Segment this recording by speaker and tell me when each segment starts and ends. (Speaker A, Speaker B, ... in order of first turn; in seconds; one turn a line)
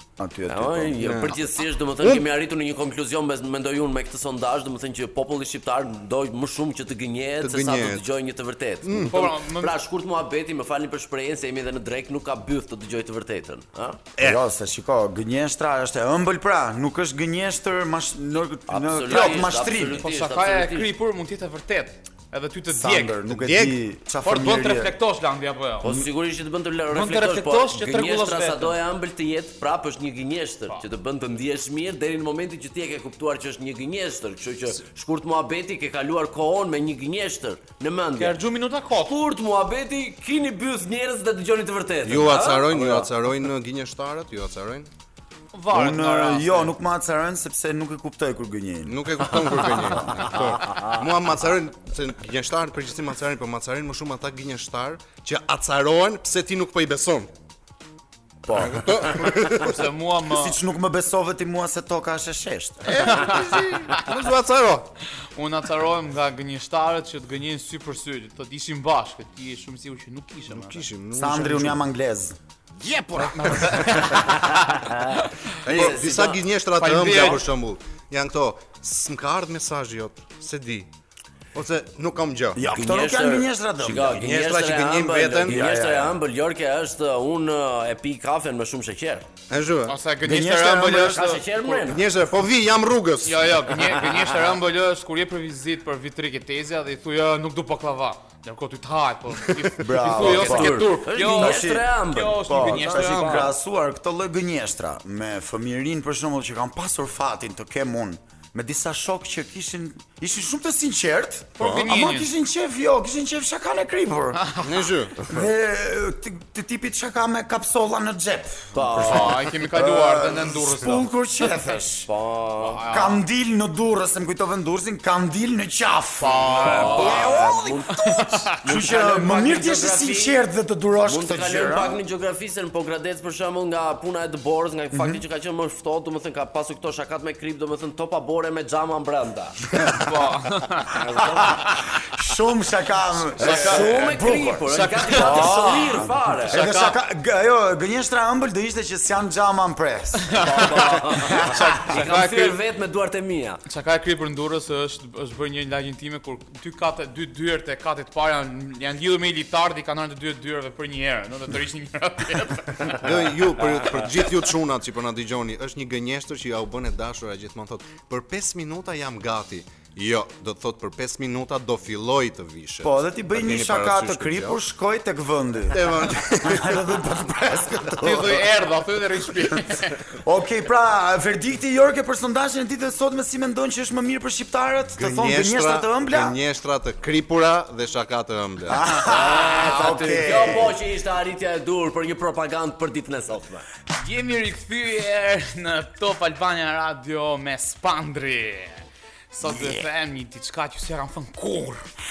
Speaker A: 0.2-1.2
Speaker B: 0.5-14.0
Speaker C: 1.0-1.4
Speaker C: 7.4-8.0
Speaker C: 8.8-9.1
Speaker D: 9.1-9.8
Speaker A: 14.2-20.1
Speaker B: 18.7-20.9
Speaker D: 20.0-23.2
Speaker A: 22.7-24.9
Speaker C: 23.3-23.8
Speaker D: 24.2-25.9
Speaker B: 25.8-38.4
Speaker D: 26.9-28.8
Speaker D: 38.2-39.1
Speaker B: 38.9-43.1
Speaker C: 42.0-44.9
Speaker D: 45.5-46.7
Speaker A: 45.7-49.0
Speaker C: 48.9-57.3
Speaker A: 50.1-50.4
Speaker A: 58.5-59.3
Speaker C: 58.5-59.8
Speaker D: 59.6-60.6
Speaker A: 60.3-63.4
Speaker C: 62.9-64.9
Speaker D: 62.9-64.1
Speaker D: 65.4-70.9
Speaker C: 70.5-71.8
Speaker A: 71.1-73.8
Speaker D: 73.1-75.5
Speaker B: 74.3-75.0
Speaker C: 75.6-80.9
Speaker B: 75.7-76.4
Speaker D: 76.7-77.4
Speaker C: 81.5-82.6
Speaker A: 82.5-84.3
Speaker B: 82.7-89.3
Speaker C: 84.2-85.7
Speaker A: 85.5-86.2
Speaker C: 89.5-90.0
Speaker D: 89.9-92.0
Speaker A: 90.2-91.3
Speaker B: 90.9-92.0
Speaker C: 91.9-93.4
Speaker D: 93.2-103.5
Speaker A: 99.8-114.4
Speaker B: 100.1-103.5
Speaker D: 111.6-112.3
Speaker C: 111.6-111.9
Speaker D: 114.3-114.7
Speaker C: 114.6-115.3
Speaker A: 115.3-122.1
Speaker B: 118.7-119.4
Speaker D: 119.0-121.1
Speaker B: 122.1-122.9
Speaker D: 122.6-123.2
Speaker A: 122.9-132.0
Speaker D: 126.2-128.6
Speaker B: 126.3-130.4
Speaker B: 131.1-139.6
Speaker A: 134.9-135.2
Speaker A: 139.8-140.1
Speaker D: 139.9-141.9
Speaker B: 140.9-141.7
Speaker A: 141.2-150.3
Speaker B: 143.4-146.6
Speaker D: 143.4-147.0
Speaker D: 150.2-152.6
Speaker B: 150.3-153.6
Speaker A: 151.4-151.8
Speaker D: 153.7-163.1
Speaker C: 163.0-174.6
Speaker A: 172.8-178.4
Speaker C: 175.7-177.1
Speaker C: 178.0-178.3
Speaker D: 178.0-180.0
Speaker A: 179.7-186.4
Speaker C: 185.0-188.8
Speaker A: 188.7-190.8
Speaker B: 189.0-193.7
Speaker D: 193.9-201.9
Speaker A: 199.4-199.8